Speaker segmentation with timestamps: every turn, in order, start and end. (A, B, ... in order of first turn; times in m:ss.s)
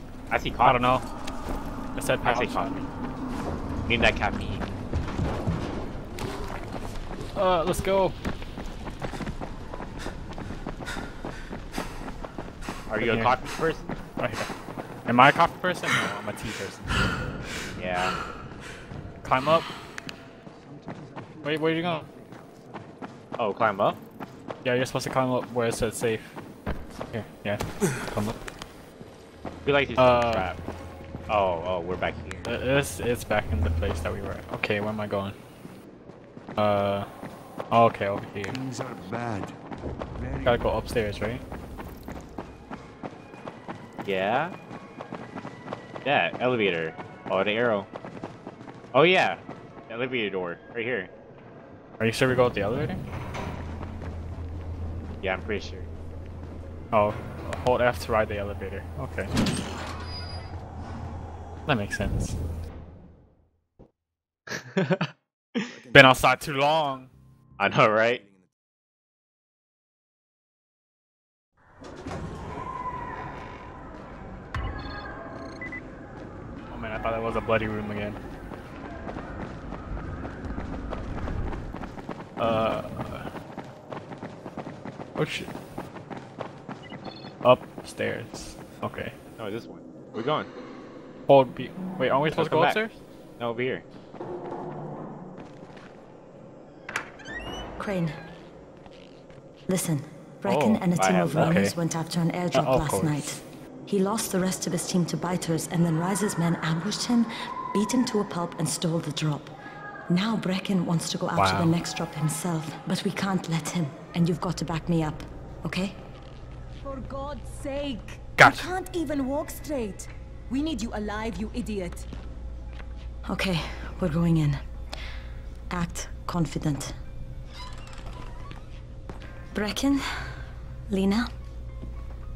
0:00.3-0:00.9 A
0:00.6-0:01.0 B
0:02.0-0:02.8 B
0:02.2-0:02.7 A
0:03.8-0:04.6 A
0:07.3-0:08.2 B
0:12.9-0:13.9 A
0:13.0-0:13.4 B
0:14.2-0:14.5 B
0:15.1-0:17.0 B
0:17.7-0:18.2 A
0:19.2-0:19.7 B
0:21.4-0:22.1 B
0:23.4-0:24.0 A
0:24.6-0:26.4 B
0:27.1-0:28.4 B
0:29.6-0:30.6 A
0:30.0-0:30.5 B
0:31.3-0:32.5 A
0:32.5-0:35.4 B
0:36.6-0:37.1 B
0:37.7-0:38.6 B
0:38.5-0:39.6 C
0:40.2-0:40.7 C
0:40.4-0:41.4 B
0:44.0-0:44.5 A
0:46.0-0:47.9 A
0:48.9-0:51.1 A
0:52.0-0:53.0 B
0:55.2-0:55.9 A
0:56.9-0:59.3 B
1:01.7-1:02.4 B
1:04.5-1:05.8 A
1:05.7-1:06.0 C
1:05.9-1:07.1 B
1:07.6-1:08.2 A
1:16.7-1:18.2 B
1:22.4-1:23.3 B
1:25.2-1:25.5 B
1:27.4-1:29.1 B
1:29.4-1:30.5 A
1:31.3-1:32.9 B
1:32.3-1:32.8 A
1:33.4-1:33.8 A
1:37.8-1:38.2 D
1:39.7-1:49.5 D
1:40.4-1:41.7 B
1:41.0-1:41.6 A
1:42.5-1:43.4 B
1:50.1-1:56.0 D
1:51.3-1:51.7 B
1:56.8-2:02.0 E
1:58.4-1:58.7 B
2:03.3-2:04.6 D
2:05.7-2:07.0 D
2:09.5-2:10.0 D
2:10.9-2:11.3 D